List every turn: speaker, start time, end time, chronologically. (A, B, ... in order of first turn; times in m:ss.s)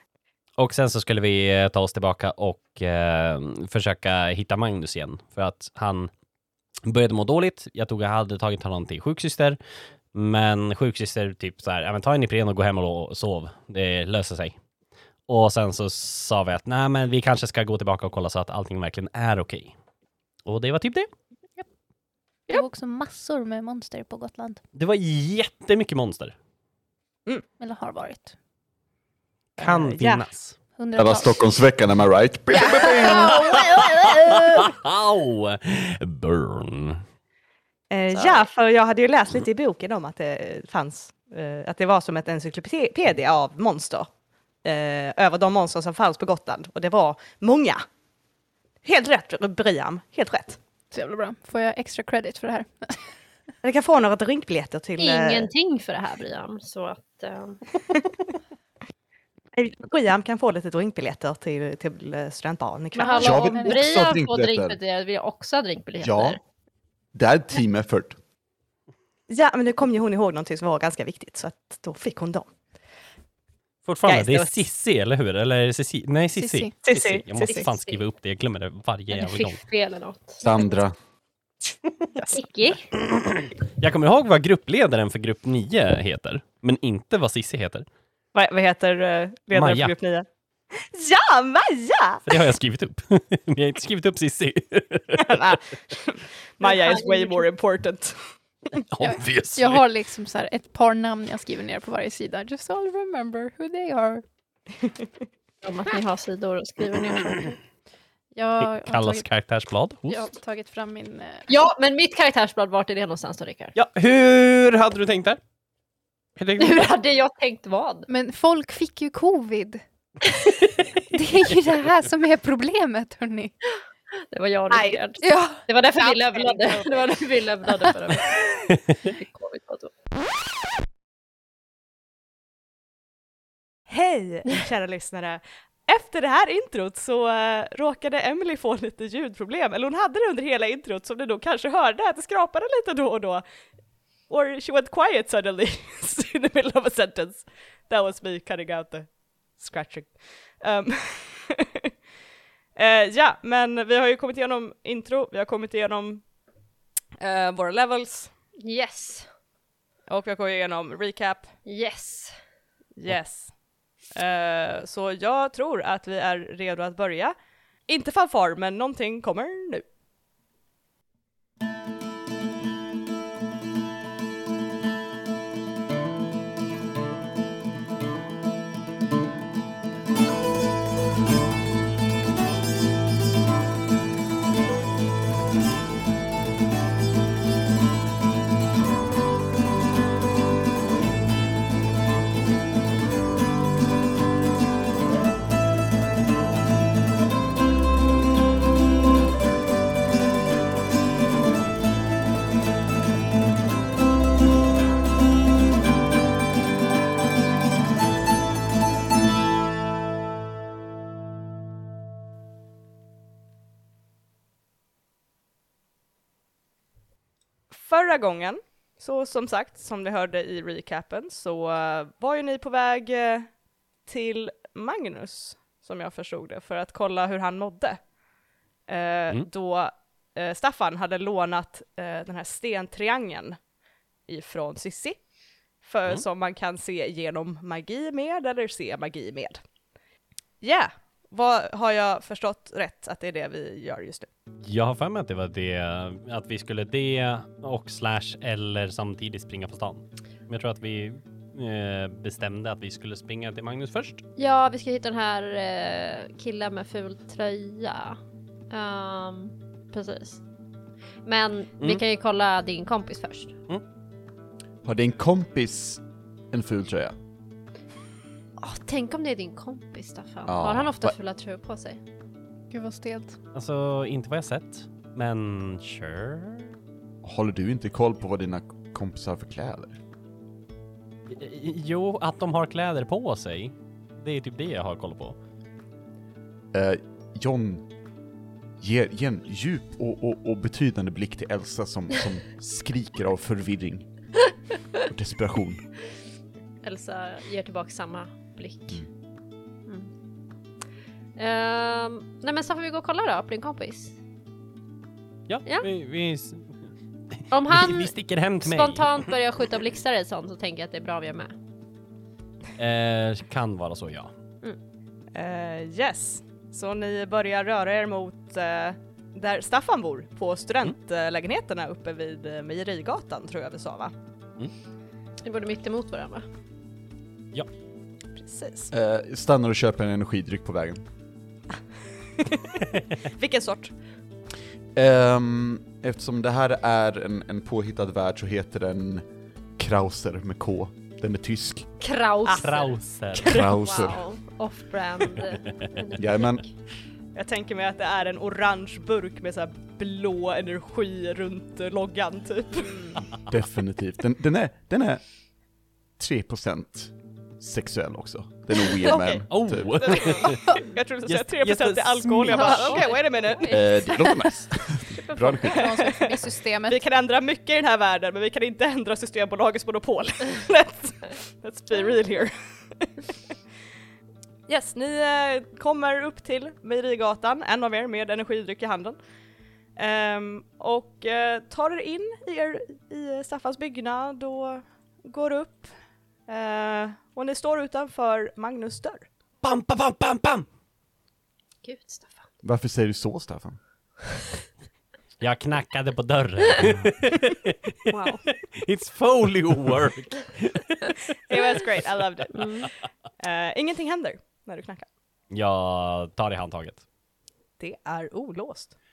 0:00.6-0:06.1 A
0:06.8-0:09.6 A
0:10.1-0:14.5 A
0:15.3-0:19.7 A
0:20.4-0:21.1 A
0:22.5-0:24.6 B
0:24.7-0:26.3 A
0:27.6-0:28.3 B
0:29.6-0:30.2 C
0:29.6-0:30.6 A
0:30.8-0:31.4 B
0:30.9-0:33.5 D
0:32.5-0:34.7 C
0:33.0-0:33.4 B
0:34.3-0:37.0 A
0:37.9-0:44.1 C
0:44.6-0:47.8 C
0:48.8-0:50.6 C
0:50.9-0:53.0 B
0:53.6-0:55.5 C
0:55.0-0:57.6 E
0:59.6-1:03.6 C
1:02.9-1:06.4 E
1:03.2-1:03.8 B
1:03.2-1:04.8 D
1:06.0-1:06.4 D
1:07.1-1:08.2 D
1:09.3-1:12.5 C
1:13.8-1:19.6 A
1:14.1-1:14.6 C
1:16.4-1:16.7 B
1:16.8-1:17.7 C
1:17.4-1:18.0 E
1:19.1-1:20.6 E
1:20.4-1:20.9 D
1:22.3-1:22.9 E
1:22.9-1:27.8 A
1:28.3-1:32.4 C
1:29.5-1:29.9 A
1:32.3-1:35.4 A
1:35.2-1:38.2 C
1:36.6-1:37.5 E
1:38.9-1:39.8 A
1:39.0-1:44.2 B
1:45.6-1:47.6 E
1:48.3-1:49.2 B
1:48.8-1:50.2 A
1:50.1-1:51.4 B
1:51.5-1:53.8 E
1:53.7-1:55.4 A
1:56.4-1:56.9 A
1:56.6-1:58.1 E
1:58.1-1:59.8 B
2:01.1-2:03.5 B
2:04.3-2:09.9 E
2:04.7-2:05.0 C
2:05.2-2:05.6 B
2:06.0-2:07.1 C
2:13.9-2:23.4 C
2:24.3-2:31.9 C
2:32.8-2:36.2 C
2:37.2-2:38.3 C
2:38.6-2:39.3 E
2:40.1-2:41.5 C
2:41.6-2:42.4 E
2:43.0-2:43.5 C
2:44.1-2:47.3 C
2:47.9-2:49.8 C
3:37.7-3:43.5 C
3:44.0-3:48.0 C
3:48.9-3:53.6 C
3:54.3-3:55.2 C
3:55.8-3:59.6 C
4:00.6-4:04.3 C
4:04.6-4:14.2 A
4:14.4-4:18.2 E
4:18.7-4:20.4 E
4:21.2-4:23.6 E
4:24.8-4:27.1 D
4:28.6-4:32.0 E
4:30.5-4:31.1 D
4:32.7-4:33.4 B
4:33.5-4:36.8 A
4:37.2-4:40.0 D
4:41.3-4:45.4 A
4:46.7-4:47.8 D
4:48.8-4:54.1 D
4:55.0-4:55.8 D
4:56.8-4:59.0 E
4:59.8-5:00.1 E
5:01.4-5:04.2 E
5:05.5-5:06.8 A
5:07.5-5:11.5 E
5:07.6-5:09.3 A
5:12.8-5:14.3 A
5:15.3-5:24.1 C
5:25.4-5:26.5 E
5:28.4-5:28.9 C
5:28.9-5:31.0 D
5:32.4-5:33.9 C
5:34.9-5:39.2 D
5:39.8-5:41.9 D
5:42.0-5:46.4 E
5:42.4-5:43.6 C
5:42.6-5:43.7 A
5:43.4-5:44.3 D
5:46.2-5:46.6 D
5:47.3-5:53.1 C
5:52.8-5:53.2 E
5:53.4-5:55.2 D
5:56.2-6:00.3 D
5:59.0-6:03.8 C
5:59.5-6:03.0 A
6:02.5-6:04.3 E
6:03.7-6:05.9 D
6:05.2-6:05.6 E
6:05.6-6:07.0 B
6:05.8-6:13.3 C
6:14.7-6:19.2 C
6:20.0-6:25.9 C
6:26.5-6:29.2 C
6:29.6-6:30.6 A
6:31.8-6:32.5 E
6:32.6-6:33.8 D
6:35.4-6:41.3 A
6:38.1-6:38.4 E
6:41.5-6:45.1 C
6:42.5-6:42.9 E
6:45.5-6:47.0 A
6:47.8-6:48.9 C